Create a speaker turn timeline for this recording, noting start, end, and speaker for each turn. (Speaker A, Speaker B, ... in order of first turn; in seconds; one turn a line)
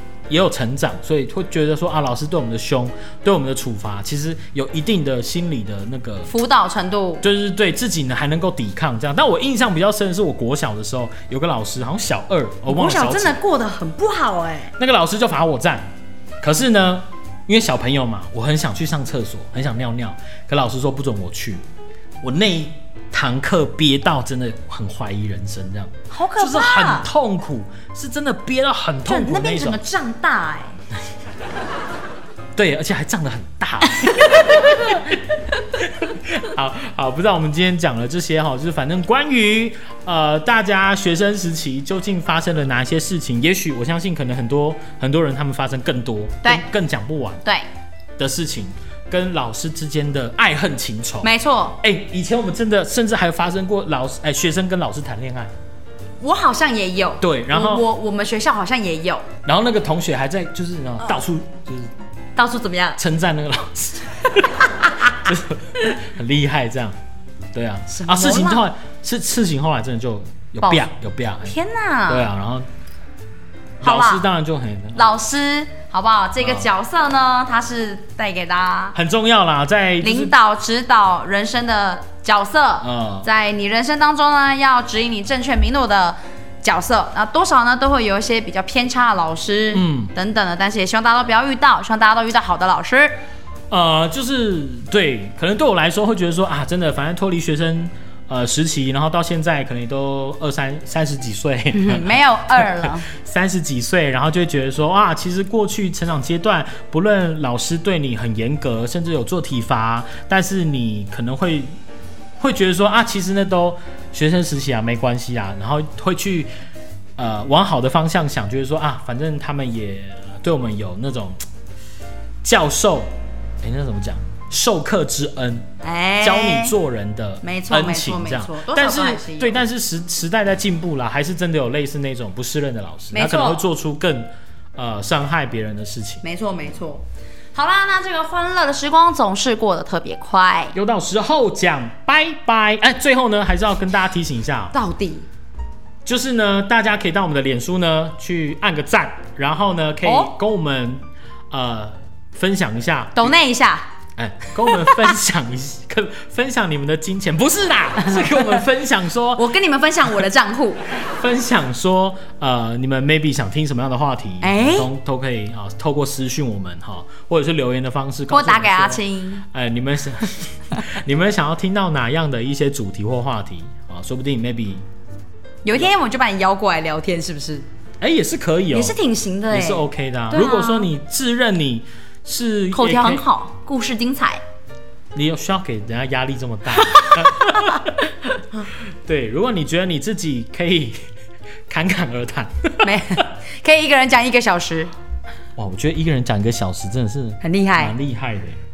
Speaker A: 0.3-6.3
Speaker B: 6.3-7.2
Speaker A: 7.2-13.4
Speaker B: 12.7-14.7
Speaker A: 14.8-15.9
Speaker A: 16.4-21.6
Speaker A: 22.2-29.8
Speaker B: 26.1-27.1
Speaker B: 29.1-30.7
Speaker A: 32.5-35.2
Speaker A: 35.8-47.4
Speaker A: 48.2-51.3
Speaker B: 51.2-51.8
Speaker A: 51.8-55.5
Speaker B: 56.2-59.3
Speaker A: 57.2-57.8
Speaker A: 59.4-61.9
Speaker B: 62.4-63.0
Speaker A: 63.0-64.7
Speaker B: 64.6-65.2
Speaker A: 65.2-67.0
Speaker A: 67.5-71.5
Speaker B: 67.9-68.6
Speaker B: 71.4-72.3
Speaker A: 72.1-72.7
Speaker A: 73.8-75.2
Speaker B: 73.8-74.2
Speaker B: 74.9-79.0
Speaker A: 76.4-76.7
Speaker A: 78.9-80.3
Speaker B: 80.0-93.2
Speaker A: 82.8-83.3
Speaker A: 89.7-90.1
Speaker A: 93.7-111.7
Speaker B: 101.7-103.1
Speaker A: 112.4-116.5
Speaker A: 117.2-121.4
Speaker A: 122.4-123.1
Speaker A: 123.6-125.7
Speaker B: 125.8-126.7
Speaker A: 126.2-136.2
Speaker B: 127.4-129.6
Speaker B: 133.1-133.6
Speaker B: 136.2-137.0
Speaker B: 137.5-140.7
Speaker A: 140.7-144.7
Speaker B: 144.7-145.3
Speaker A: 146.0-153.3
Speaker B: 150.0-150.3
Speaker B: 153.1-153.9
Speaker A: 154.2-159.5
Speaker B: 154.7-155.1
Speaker B: 159.4-160.8
Speaker A: 161.0-174.8
Speaker B: 164.4-164.9
Speaker B: 168.3-169.4
Speaker B: 175.6-177.7
Speaker A: 178.0-179.0
Speaker B: 178.7-180.9
Speaker A: 179.5-183.2
Speaker B: 182.7-184.4
Speaker A: 185.1-188.1
Speaker B: 186.8-187.8
Speaker A: 189.1-191.0
Speaker A: 191.7-193.0
Speaker B: 192.8-194.9
Speaker A: 195.6-198.6
Speaker B: 197.4-197.9